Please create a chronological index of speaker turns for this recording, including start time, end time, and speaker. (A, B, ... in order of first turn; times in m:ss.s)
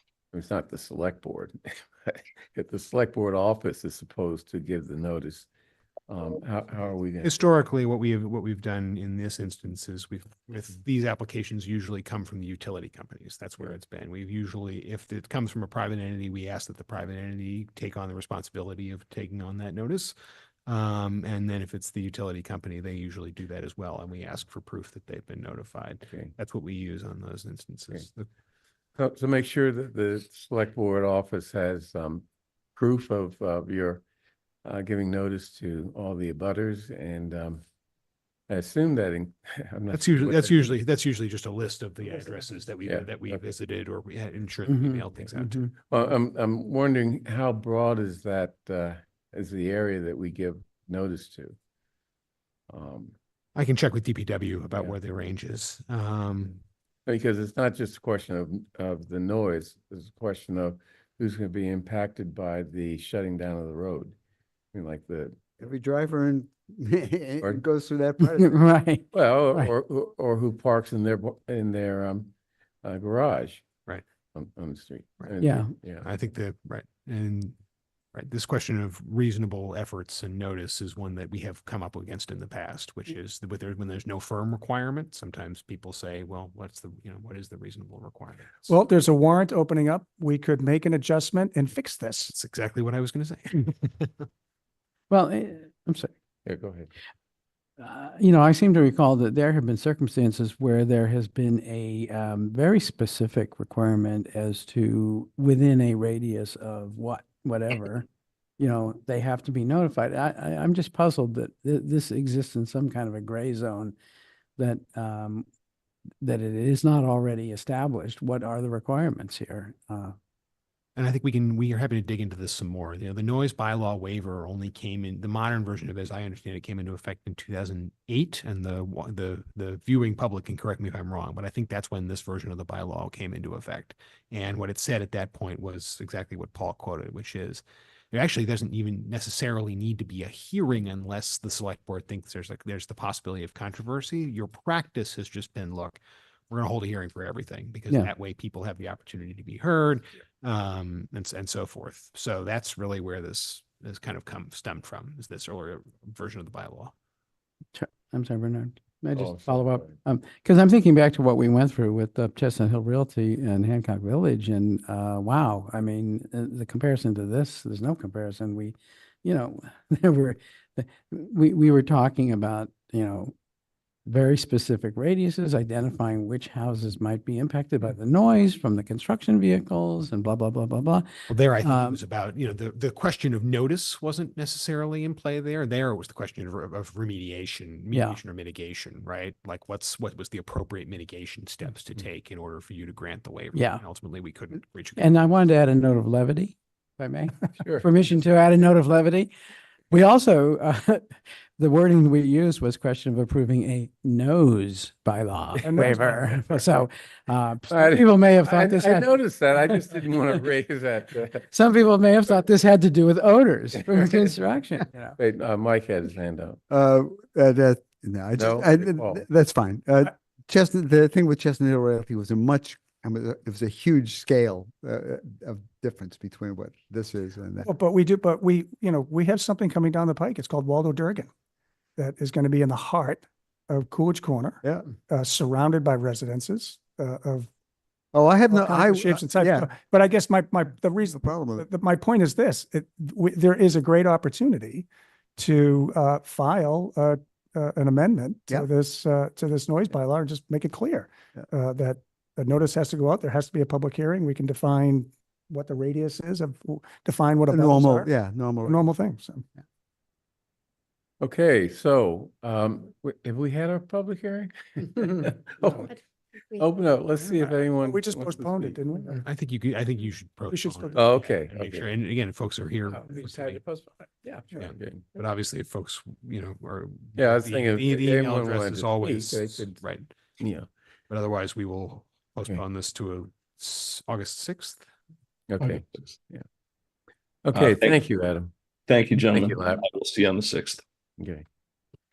0:00.3-0:05.5 A
0:06.1-0:07.3 A
0:07.2-0:20.1 B
0:20.7-0:28.3 B
0:29.0-0:34.0 A
0:34.6-0:37.6 A
0:38.5-0:40.7 A
0:39.9-0:45.6 B
0:42.8-0:43.4 A
0:44.7-0:45.5 C
0:45.8-0:51.5 A
0:52.7-0:53.1 A
0:53.6-0:56.6 B
0:57.0-1:04.2 A
1:04.7-1:05.4 A
1:05.6-1:08.6 D
1:08.2-1:09.7 C
1:09.1-1:12.3 A
1:12.8-1:13.7 A
1:14.3-1:16.1 A
1:15.2-1:15.5 B
1:15.4-1:15.7 C
1:16.0-1:17.5 B
1:18.1-1:28.8 B
1:28.7-1:32.3 E
1:32.3-1:34.2 B
1:35.1-1:36.1 C
1:36.4-1:36.9 A
1:37.8-1:48.0 C
1:48.6-1:53.9 C
1:54.6-1:55.4 C
1:56.2-2:00.1 C
2:01.0-2:36.9 B
2:37.7-2:53.3 C
2:39.2-2:39.9 A
2:54.0-3:01.1 C
3:01.3-3:15.2 B
3:01.6-3:02.0 C
3:07.9-3:08.2 C
3:13.5-3:13.8 C
3:15.0-3:19.3 C
3:19.9-3:29.8 C
3:25.6-3:26.2 E
3:27.7-3:31.4 A
3:31.5-3:35.2 C
3:35.2-3:36.6 A
3:36.7-3:47.7 D
3:38.4-3:39.2 A
3:47.6-3:51.3 E
3:52.0-3:57.5 E
3:58.1-3:59.7 D
3:58.5-4:18.1 E
4:01.2-4:01.7 D
4:17.5-4:18.8 D
4:18.7-4:19.4 E
4:21.2-4:25.9 A
4:26.6-4:28.8 A
4:27.2-4:29.2 E
4:29.2-4:33.6 B
4:30.5-4:31.0 E
4:30.9-4:31.9 A
4:32.9-4:35.1 A
4:34.5-4:40.1 B
4:37.2-4:39.8 A
4:40.4-4:40.7 A
4:41.1-4:44.8 B
4:45.5-4:46.4 A
4:47.4-4:48.5 A
4:47.7-4:48.0 F
4:48.9-4:50.8 F
4:49.1-4:49.8 A
4:51.2-4:51.4 A